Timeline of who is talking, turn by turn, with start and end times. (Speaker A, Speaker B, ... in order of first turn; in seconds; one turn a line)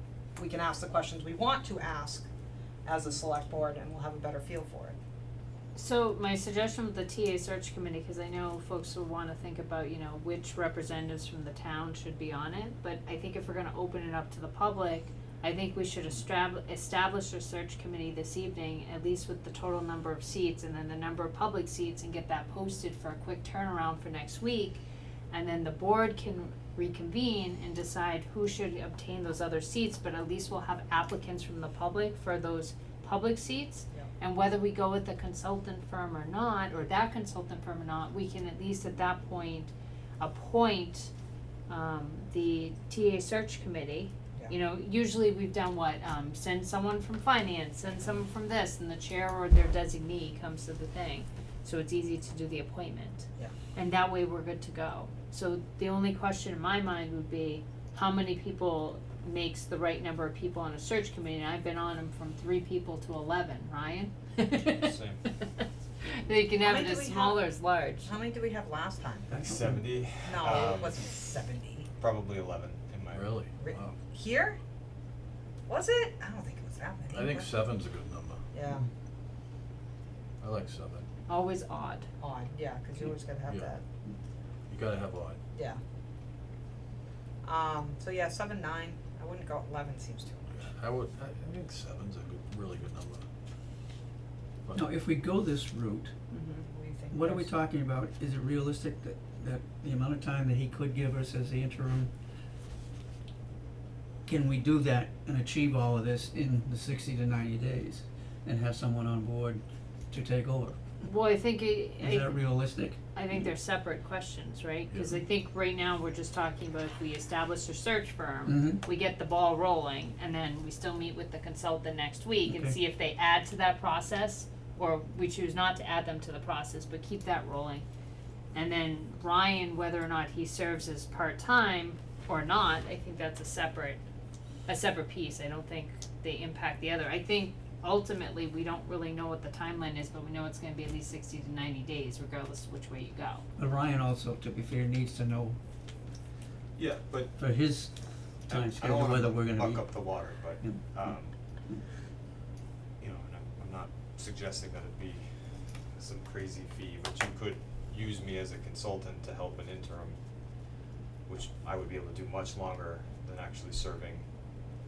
Speaker A: 0.4-2.3
Speaker A: 2.8-5.0
Speaker B: 5.7-41.1
Speaker B: 41.7-65.6
Speaker C: 64.7-65.2
Speaker B: 66.2-68.1
Speaker A: 66.6-67.4
Speaker A: 68.0-69.5
Speaker D: 69.3-69.9
Speaker C: 69.3-71.0
Speaker A: 70.2-71.9
Speaker C: 72.0-73.5
Speaker E: 73.1-73.9
Speaker A: 73.6-74.6
Speaker A: 75.7-77.6
Speaker E: 77.1-78.4
Speaker A: 78.5-78.9
Speaker E: 80.4-81.0
Speaker B: 81.3-82.1
Speaker A: 82.2-83.8
Speaker E: 83.5-83.7
Speaker E: 84.7-85.4
Speaker A: 85.5-85.8
Speaker A: 87.4-90.7
Speaker E: 90.5-93.2
Speaker D: 94.7-96.1
Speaker A: 96.3-97.5
Speaker D: 97.1-102.1
Speaker D: 104.2-110.8
Speaker B: 111.0-112.3
Speaker D: 112.0-113.0
Speaker B: 113.1-127.8
Speaker E: 114.9-115.2
Speaker D: 118.5-118.8
Speaker D: 122.4-122.8
Speaker B: 128.5-134.0
Speaker B: 134.7-143.4
Speaker D: 143.6-145.6
Speaker C: 146.8-147.3
Speaker D: 147.4-147.9
Speaker D: 148.5-151.0
Speaker C: 148.5-151.3
Speaker C: 153.0-155.2
Speaker C: 156.0-160.2
Speaker C: 161.3-164.2